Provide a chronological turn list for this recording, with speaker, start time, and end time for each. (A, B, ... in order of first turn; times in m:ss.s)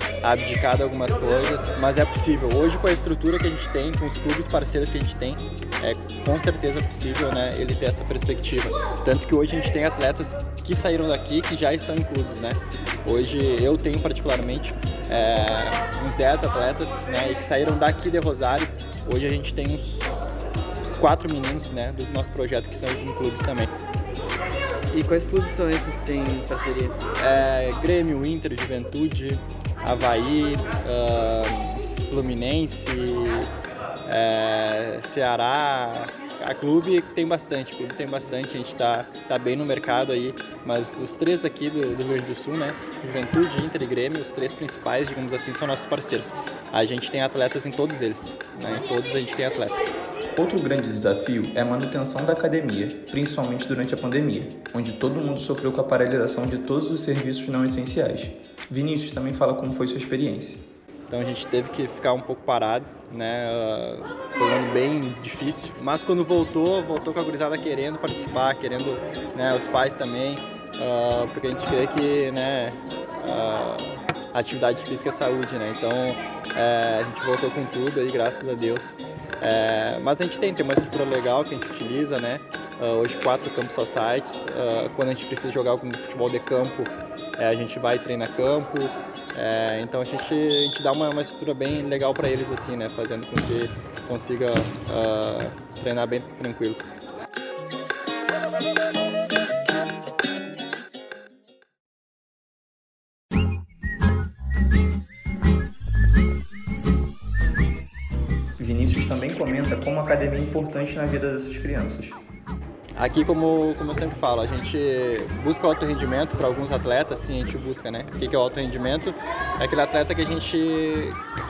0:00.2-0:20.2 A
0:20.8-0:23.7 A
0:24.9-0:27.0 B
0:27.2-0:33.5 A
0:34.0-0:49.8 A
0:50.4-1:00.6 C
1:01.1-1:37.0 A
1:48.6-1:52.2 C
1:53.0-2:01.2 A